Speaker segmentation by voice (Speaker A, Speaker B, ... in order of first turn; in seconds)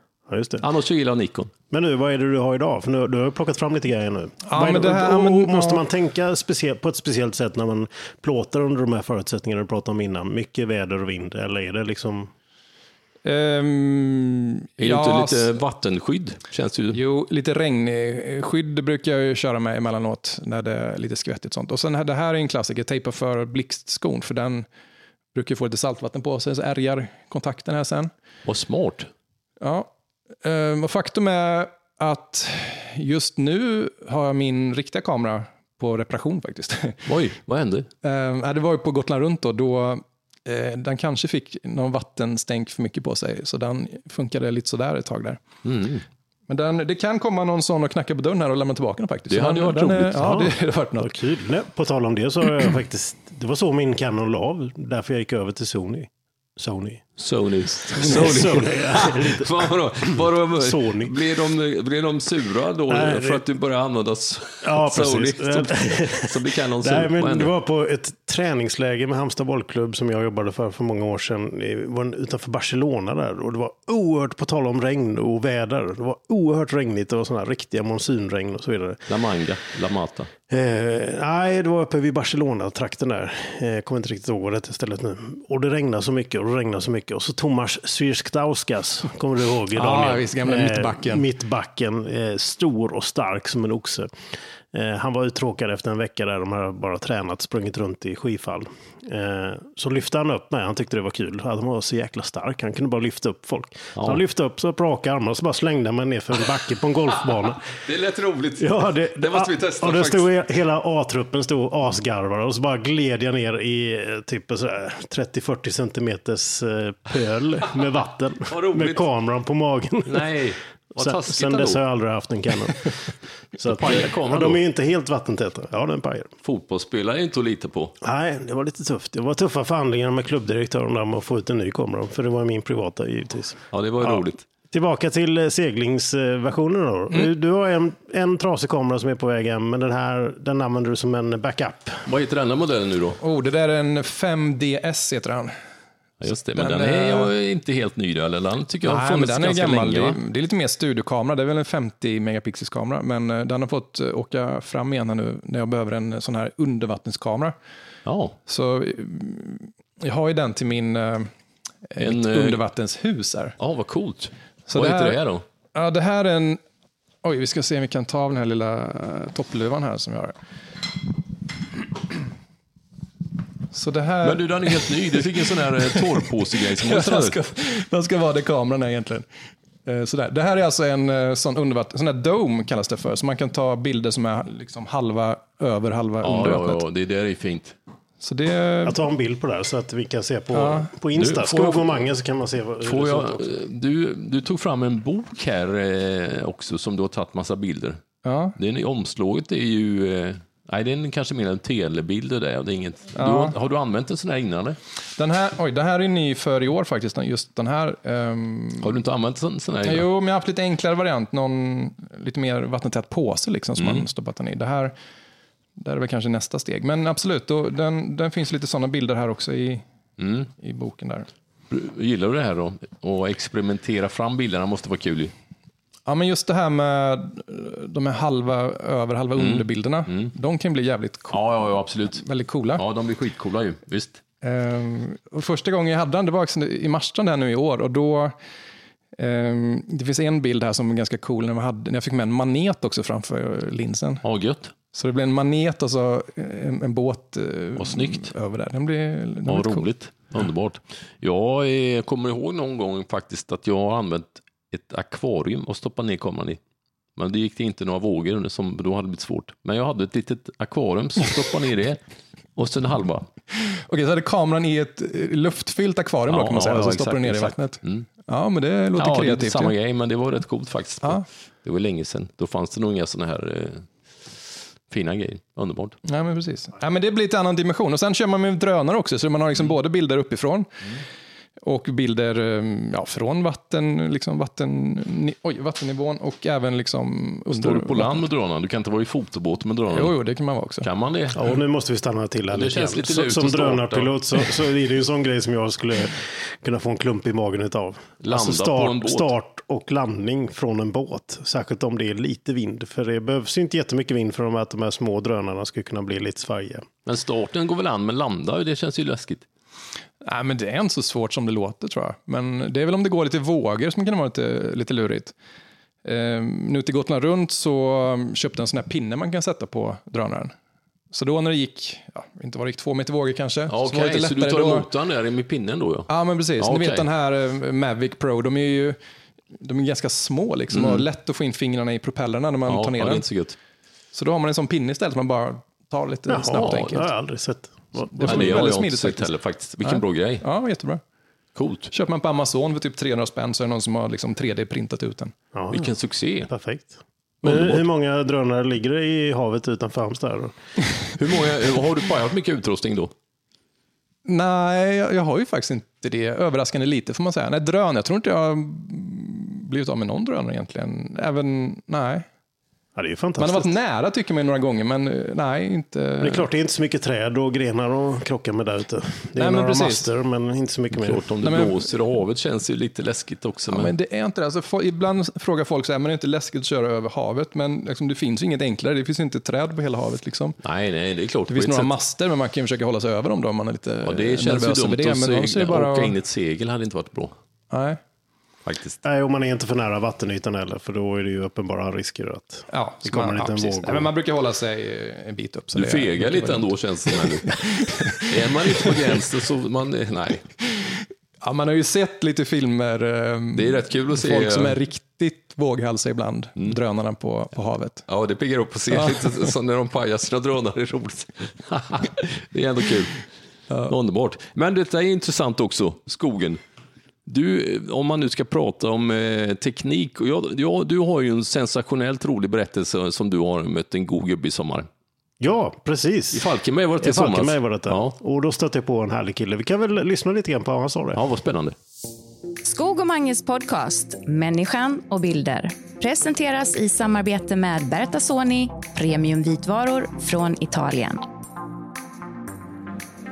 Speaker A: 0.3-0.7, 1.7-12.3, 50.1-57.2, 57.9-59.7, 60.6-61.2, 62.9-63.4, 64.6-79.1, 80.5-94.1, 94.7-107.7, 108.6-120.3, 121.0-123.1, 123.6-126.3, 128.0-142.1, 188.8-193.5, 291.4-306.9, 336.3-338.7, 345.5-345.9, 346.5-350.5, 362.9-363.7, 366.2-371.2, 389.0-394.1, 425.4-426.5, 427.0-431.2
Speaker B: 0.6-1.5, 14.8-17.0, 28.5-29.1, 37.1-37.9, 45.6-46.0, 49.3-50.2, 57.2-67.5, 79.1-80.3, 107.5-110.3, 118.5-119.1, 120.1-121.8, 123.7-124.6, 126.4-127.9, 133.7-134.4, 142.1-143.2, 146.2-150.2, 158.1-158.4, 162.0-162.6, 163.6-165.4, 174.2-177.4, 186.2-187.8, 191.2-191.9, 192.8-198.0, 198.6-204.8, 208.8-210.1, 213.8-214.1, 220.2-220.5, 221.7-225.3, 229.4-230.3, 231.3-232.2, 232.8-234.2, 244.2-244.7, 247.8-248.3, 249.5-256.6, 257.2-262.0, 262.6-263.3, 266.3-268.1, 269.0-276.0, 287.5-290.1, 290.8-291.4, 292.5-294.1, 298.2-299.3, 307.1-309.5, 323.7-327.1, 330.7-331.1, 332.7-333.6, 336.6-336.9, 338.2-340.4, 341.6-341.9, 345.7-346.5, 347.4-347.8, 351.2-353.1, 371.0-373.9, 380.6-381.9, 384.1-387.3, 388.7-389.0, 395.7-397.6, 398.2-400.4, 403.6-404.8, 408.1-413.2, 413.9-416.6, 417.3-424.9, 426.3-428.1, 431.1-431.8
Speaker C: 4.5-5.8, 13.2-15.5, 16.9-24.7, 25.3-28.1, 29.6-29.9, 30.4-37.1, 38.0-45.4, 46.5-51.2, 89.7-91.3, 143.2-145.6, 146.6-147.3, 148.8-157.6, 158.5-161.3, 161.9-163.6, 164.7-165.2, 165.7-166.6, 167.2-170.4, 173.7-176.2, 176.8-179.3, 179.9-186.8, 188.2-189.0, 190.5-190.9, 198.2-198.6, 203.2-203.6, 205.2-209.0, 209.8-214.9, 215.8-219.8, 220.6-221.3, 226.1-232.8, 234.4-238.3, 239.2-244.2, 244.9-249.9, 263.5-269.7, 276.1-280.7, 281.6-288.2, 289.9-290.9, 310.2-315.3, 316.1-320.5, 321.1-324.9, 326.1-329.0, 329.6-333.2, 334.1-337.1, 338.1-339.3, 339.8-341.0, 341.9-345.3, 354.3-362.3, 363.4-366.5, 369.4-370.1, 371.4-371.9, 373.7-380.6, 381.5-386.2, 387.7-388.0, 392.7-398.3, 401.4-408.1
Speaker D: 432.6-441.2